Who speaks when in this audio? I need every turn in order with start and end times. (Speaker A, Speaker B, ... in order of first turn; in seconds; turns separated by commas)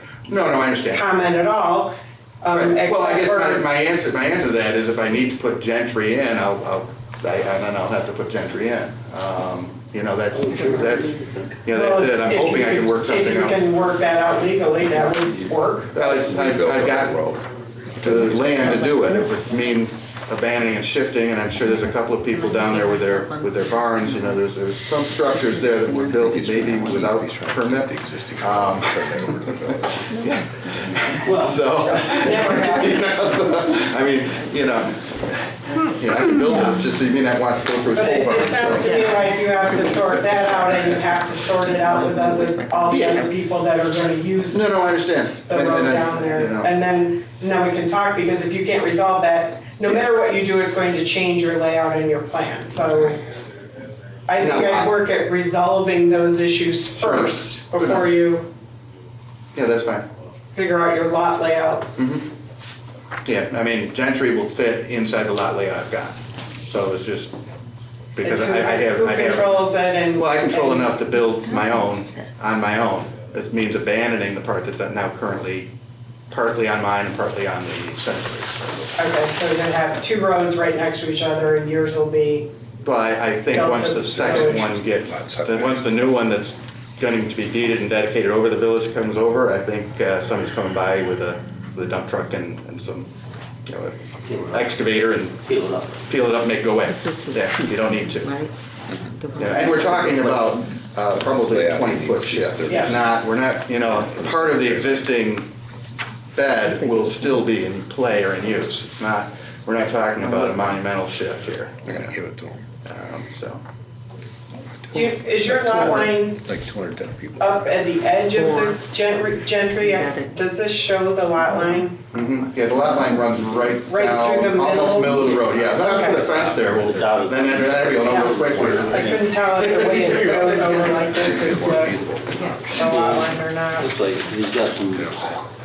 Speaker A: 0.3-1.0, Speaker B: 0.8-3.6, Speaker A: 2.5-13.6, Speaker C: 10.4-11.4, Speaker D: 10.4-11.5, Speaker B: 11.7-15.9, Speaker E: 15.1-17.4, Speaker A: 15.9-17.2, Speaker A: 18.0-39.0, Speaker D: 18.1-19.5, Speaker D: 21.8-24.4, Speaker D: 25.2-27.0, Speaker E: 26.2-30.1, Speaker D: 30.1-31.1, Speaker B: 31.2-33.3, Speaker D: 32.2-34.4, Speaker D: 35.7-36.3, Speaker B: 36.4-36.7, Speaker B: 37.9-44.7, Speaker D: 38.7-39.3, Speaker D: 41.7-43.3, Speaker A: 42.9-43.2, Speaker A: 44.5-46.7, Speaker B: 45.5-53.2, Speaker B: 54.3-58.5, Speaker A: 54.4-54.9, Speaker A: 57.0-58.0, Speaker A: 59.5-60.1, Speaker B: 60.5-61.9, Speaker A: 62.0-62.3, Speaker A: 63.2-67.3, Speaker A: 68.2-69.6, Speaker B: 68.2-71.0, Speaker A: 70.1-75.7, Speaker D: 71.1-72.3, Speaker A: 76.3-79.0, Speaker B: 79.0-82.5, Speaker A: 82.8-93.1, Speaker B: 83.5-84.7, Speaker E: 84.0-85.9, Speaker A: 93.7-95.4, Speaker C: 94.2-96.0, Speaker A: 96.0-98.3, Speaker D: 96.9-100.5, Speaker A: 99.4-105.5, Speaker C: 100.1-100.5, Speaker E: 101.1-103.2, Speaker B: 102.7-103.0, Speaker E: 103.9-105.0, Speaker A: 106.3-112.1, Speaker D: 106.6-107.5, Speaker D: 110.2-110.8, Speaker E: 111.9-112.6, Speaker A: 112.8-113.6, Speaker E: 114.8-115.6, Speaker B: 114.9-116.5, Speaker D: 115.7-116.2, Speaker E: 116.4-117.7, Speaker B: 117.4-122.0, Speaker D: 118.3-118.8, Speaker D: 119.8-120.4, Speaker D: 121.4-121.8, Speaker A: 122.1-129.2, Speaker D: 122.8-123.7, Speaker B: 123.8-126.3, Speaker C: 124.6-125.6, Speaker D: 125.1-125.8, Speaker E: 126.2-127.9, Speaker C: 126.4-131.0, Speaker B: 128.0-132.0, Speaker E: 128.5-128.8, Speaker E: 129.6-132.9, Speaker D: 132.4-132.6, Speaker B: 132.7-133.9, Speaker C: 132.8-135.4, Speaker E: 134.9-135.4